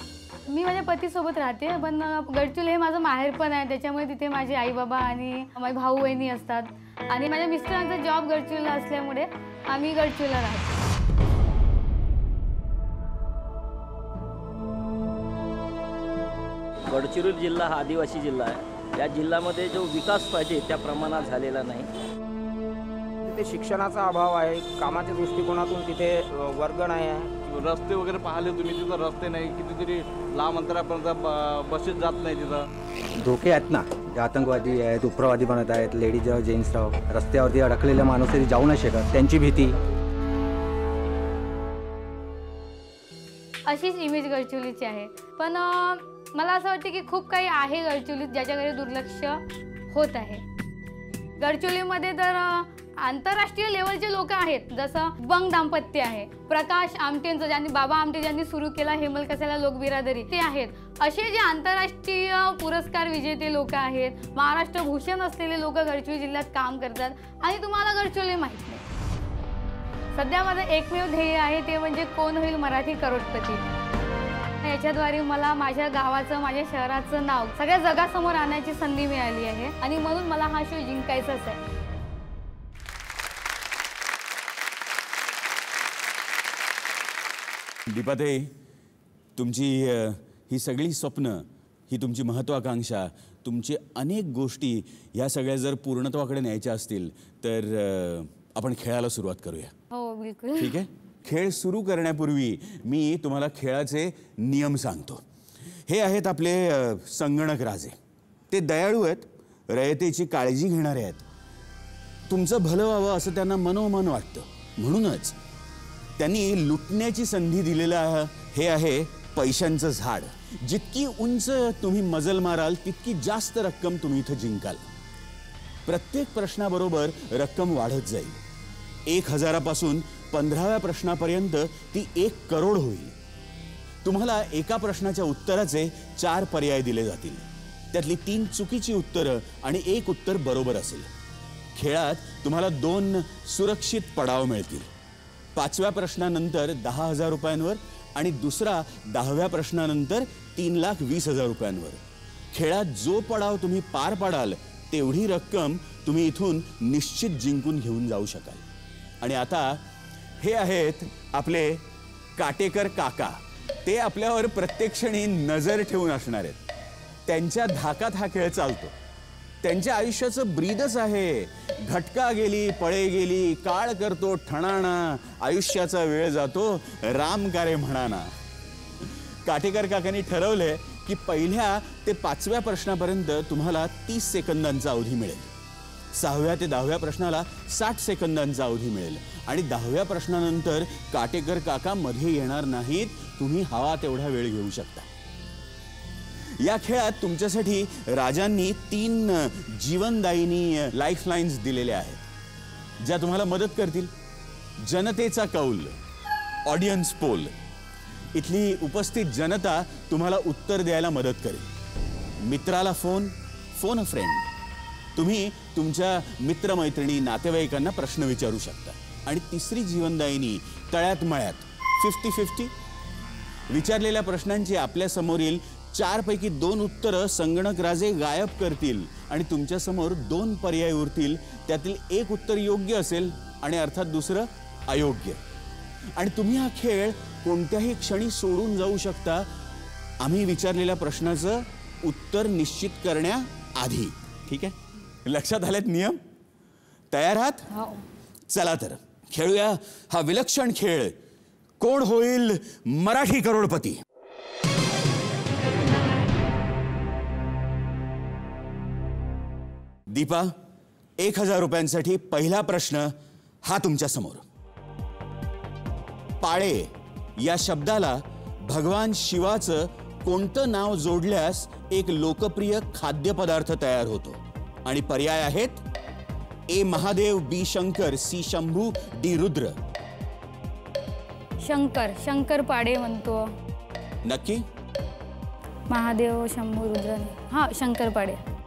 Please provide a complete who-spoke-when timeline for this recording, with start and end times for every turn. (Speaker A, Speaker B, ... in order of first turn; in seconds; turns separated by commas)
Speaker A: 0.5-10.7, Speaker B: 16.9-21.9, Speaker C: 23.2-27.3, Speaker D: 27.4-32.7, Speaker E: 33.2-39.8, Speaker A: 43.7-50.4, Speaker A: 51.4-68.8, Speaker A: 70.2-73.6, Speaker A: 74.6-81.6, Speaker F: 87.9-88.5, Speaker F: 89.4-99.7, Speaker A: 99.9-100.8, Speaker F: 100.6-105.2, Speaker F: 105.9-108.0, Speaker F: 108.5-111.2, Speaker F: 112.3-115.4, Speaker F: 116.2-124.9, Speaker F: 125.9-128.4, Speaker F: 129.1-133.2, Speaker F: 134.0-141.1, Speaker F: 141.8-144.9, Speaker F: 145.6-158.6, Speaker F: 159.2-159.8, Speaker F: 160.4-161.8, Speaker F: 162.4-166.6, Speaker F: 167.3-169.0, Speaker F: 169.6-178.3, Speaker F: 179.0-185.5, Speaker F: 186.1-195.1, Speaker F: 196.6-202.2, Speaker F: 203.0-204.1, Speaker F: 204.8-206.0, Speaker F: 206.7-207.6, Speaker F: 208.3-211.7, Speaker F: 212.4-214.5, Speaker F: 215.2-222.7, Speaker F: 223.7-235.4, Speaker F: 236.2-239.5, Speaker F: 240.2-246.2, Speaker F: 247.1-247.7, Speaker A: 247.7-248.0, Speaker F: 248.5-251.2, Speaker F: 251.8-254.0, Speaker F: 260.1-260.5, Speaker F: 261.2-264.4, Speaker F: 266.4-275.8, Speaker F: 276.7-279.8, Speaker A: 281.6-283.5, Speaker F: 284.2-284.6, Speaker A: 285.9-288.4